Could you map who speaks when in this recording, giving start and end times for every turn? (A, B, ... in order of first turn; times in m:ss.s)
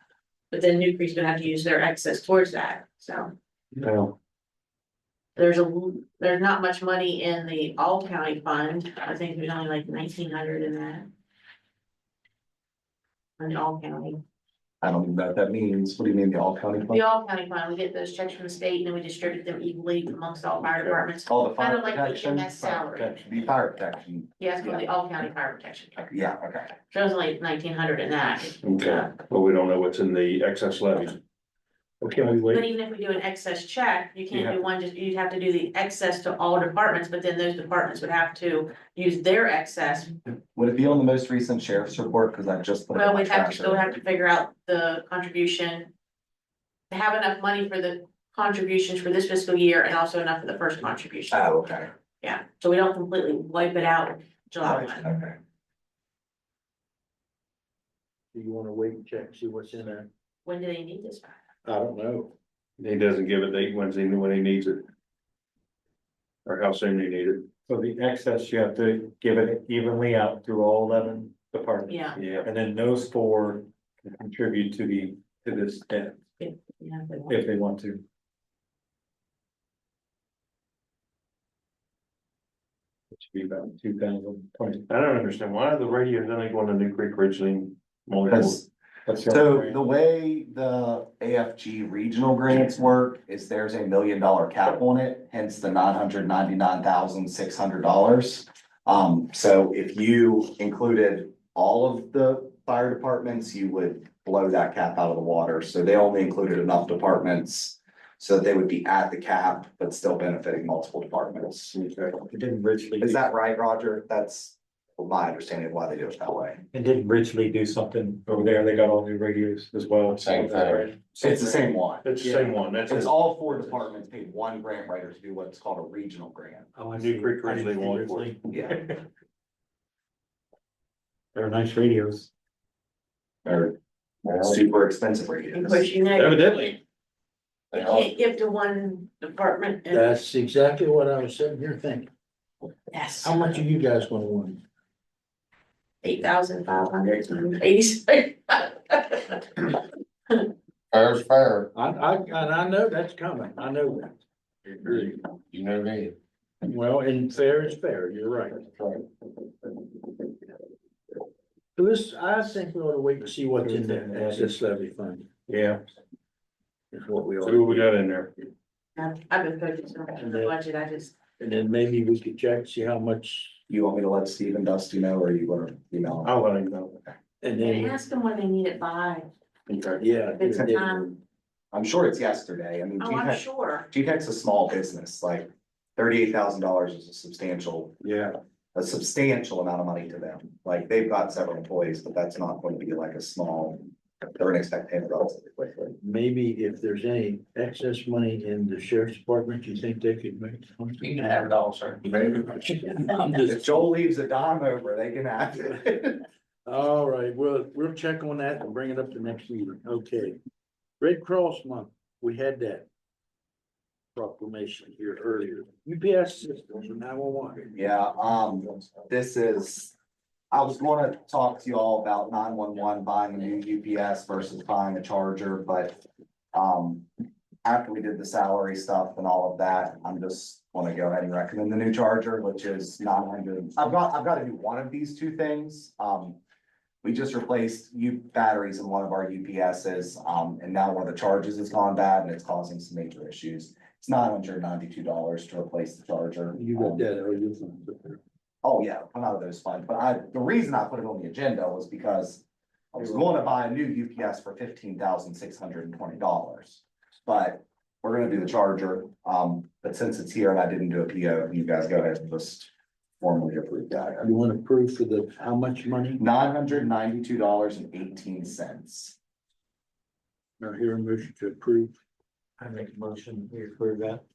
0:00.5-0:03.3 A
0:03.8-0:04.1 B
0:05.4-0:11.1 A
0:13.4-0:14.2 A
0:14.8-0:17.0 C
0:16.9-0:23.2 A
0:21.3-0:24.9 C
0:24.4-0:26.1 A
0:26.0-0:26.7 C
0:26.9-0:29.1 A
0:28.6-0:31.2 B
0:32.0-0:32.6 D
0:32.4-0:40.2 A
0:40.6-0:43.9 C
0:43.0-0:45.9 A
0:46.9-0:51.6 A
0:51.3-0:51.9 C
0:52.2-0:55.1 A
0:54.6-0:55.4 C
0:58.3-1:00.1 E
1:00.4-1:01.4 A
1:01.6-1:02.3 E
1:02.8-1:04.9 B
1:06.5-1:07.5 B
1:07.7-1:16.2 D
1:11.9-1:12.2 A
1:12.2-1:12.5 B
1:16.4-1:17.4 A
1:17.3-1:18.0 D
1:23.1-1:24.8 D
1:24.9-1:28.6 B
1:28.3-1:28.6 C
1:29.1-1:29.8 D
1:29.3-1:51.8 C
1:51.8-1:52.1 B
1:52.2-1:53.2 D
1:53.0-1:56.6 C
1:56.7-2:01.7 D
2:00.2-2:00.9 F
2:01.2-2:02.2 C
2:02.0-2:03.6 B
2:02.2-2:02.5 D
2:02.9-2:06.7 C
2:06.8-2:08.9 D
2:07.0-2:08.4 B
2:08.5-2:08.8 C
2:11.3-2:12.3 D
2:13.4-2:13.8 C
2:14.2-2:14.6 F
2:14.4-2:15.9 C
2:15.5-2:16.8 A
2:16.2-2:16.4 B
2:17.7-2:18.1 F
2:17.7-2:20.1 A
2:19.9-2:22.1 E
2:22.9-2:23.4 A
2:23.2-2:24.6 E
2:26.0-2:29.8 A
2:30.9-2:31.7 F
2:31.7-2:34.2 E
2:34.8-2:35.2 E
2:34.9-2:36.2 F
2:36.6-2:38.7 E
2:38.8-2:39.0 F
2:41.8-2:45.3 E
2:43.6-2:44.5 D
2:45.5-2:45.8 B
2:46.9-2:47.9 E
2:47.4-2:48.3 B
2:49.0-2:51.2 A
2:50.2-2:50.5 E
2:51.4-2:53.6 E
2:53.7-2:56.3 C
2:56.2-2:57.0 B
2:57.4-2:58.0 E
2:57.6-2:59.3 A
2:59.7-3:00.1 B
3:00.0-3:01.0 E
3:00.4-3:01.2 A
3:01.7-3:08.1 C
3:03.0-3:03.9 A
3:08.7-3:16.0 C
3:16.0-3:21.6 E
3:21.0-3:22.6 F
3:22.2-3:23.9 E
3:23.5-3:26.2 C
3:26.7-3:30.4 E
3:31.0-3:32.9 E
3:34.2-3:37.7 E
3:37.7-3:39.9 C
3:40.5-3:46.0 C
3:46.5-3:47.1 C
3:47.6-3:56.4 C
3:57.0-4:07.0 C
4:06.6-4:08.2 E
4:08.6-4:24.3 C
4:24.2-4:26.2 E
4:26.2-4:29.2 C
4:30.6-4:32.0 E
4:32.6-4:34.2 D